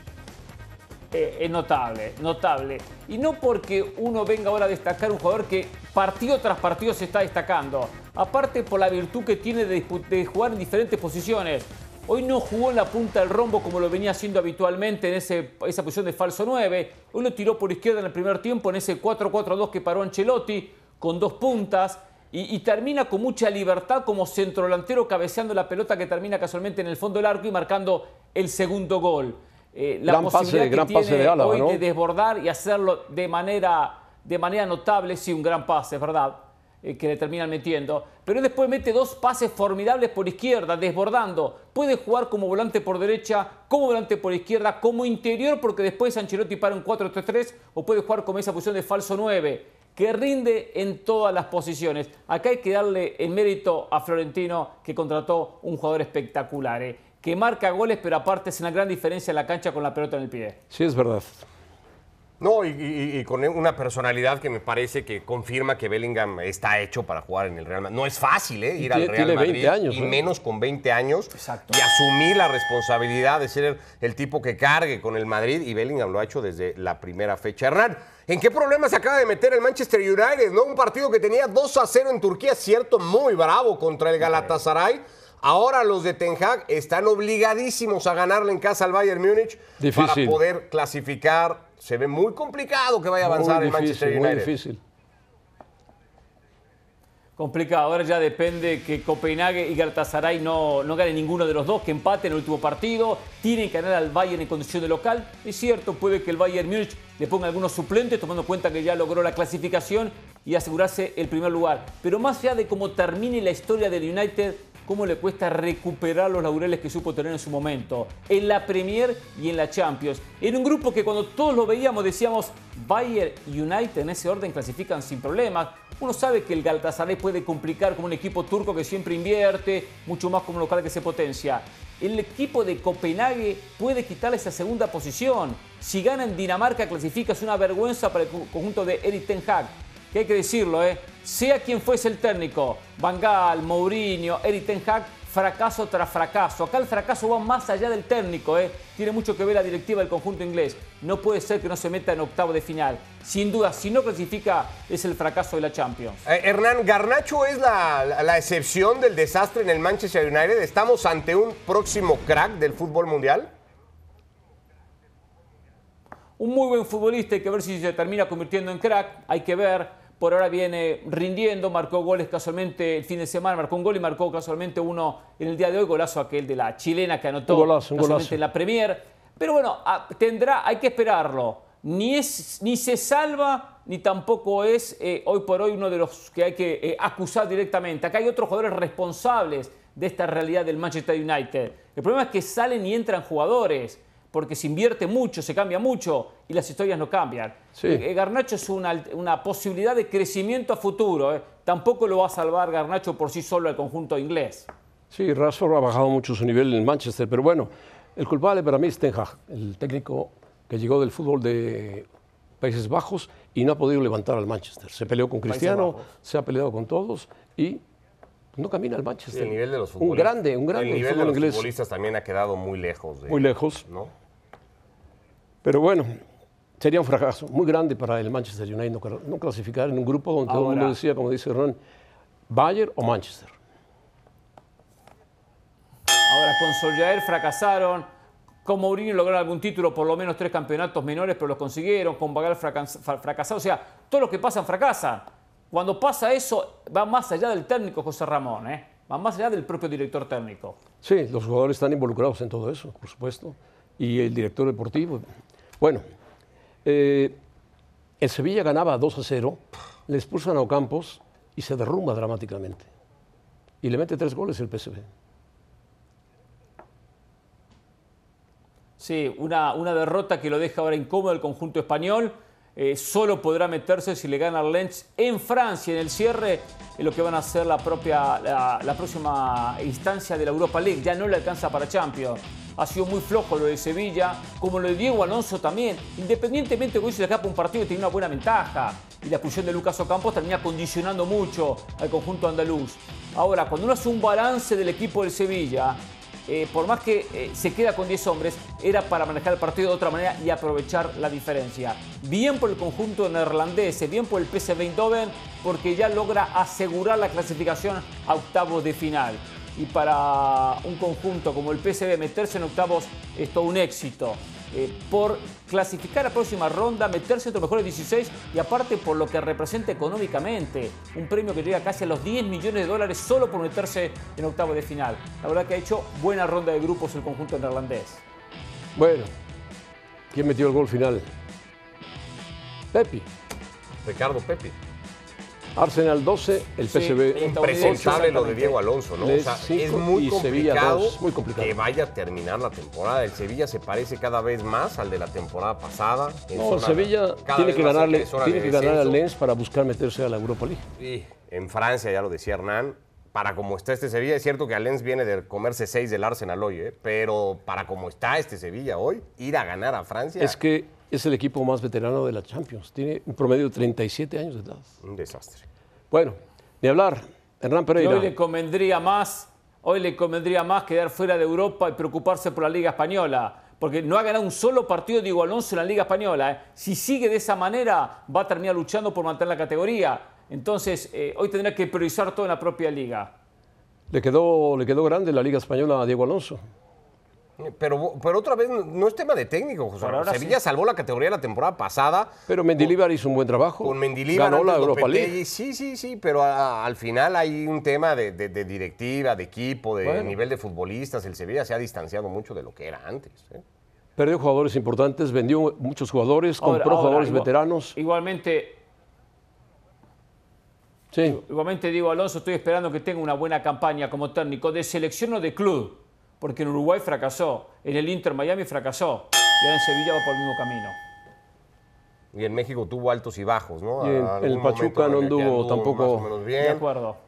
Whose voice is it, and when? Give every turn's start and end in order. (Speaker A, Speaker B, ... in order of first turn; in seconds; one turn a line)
Speaker A: 1.1-60.6
Speaker B: 30.1-31.8
Speaker B: 60.7-61.5
Speaker C: 62.4-94.5
Speaker B: 68.8-70.2
Speaker A: 71.3-71.8
Speaker B: 89.8-90.4
Speaker B: 93.2-94.8
Speaker A: 97.4-156.2
Speaker C: 156.2-163.5
Speaker A: 166.4-204.7
Speaker B: 177.5-178.4
Speaker B: 197.8-198.0
Speaker B: 205.1-212.1
Speaker B: 212.6-217.8
Speaker A: 215.5-216.0
Speaker B: 218.6-221.7
Speaker C: 219.3-224.1
Speaker B: 223.3-223.9
Speaker B: 225.6-226.2
Speaker B: 226.8-231.8
Speaker A: 230.5-231.0
Speaker B: 232.5-233.5
Speaker A: 236.3-238.1
Speaker A: 238.7-250.8
Speaker B: 251.0-255.2
Speaker B: 255.8-256.0
Speaker B: 256.8-257.4
Speaker B: 258.2-262.9
Speaker B: 263.8-265.1
Speaker A: 269.0-328.2
Speaker B: 328.9-329.3
Speaker B: 330.3-331.3
Speaker B: 332.9-333.3
Speaker C: 334.0-334.8
Speaker B: 335.8-338.4
Speaker A: 336.9-338.8
Speaker C: 337.4-349.2
Speaker B: 339.2-341.8
Speaker B: 346.5-350.9
Speaker C: 351.0-360.6
Speaker B: 360.4-364.9
Speaker C: 365.0-365.7
Speaker B: 366.1-368.3
Speaker A: 368.0-383.4
Speaker B: 384.1-386.6
Speaker C: 387.6-392.9
Speaker A: 390.0-390.6
Speaker B: 392.5-395.4
Speaker C: 393.8-403.6
Speaker B: 400.0-400.4
Speaker B: 404.2-408.0
Speaker A: 406.6-408.8
Speaker B: 411.1-411.4
Speaker A: 411.2-421.0
Speaker C: 422.3-426.9
Speaker B: 424.0-426.3
Speaker A: 426.6-427.2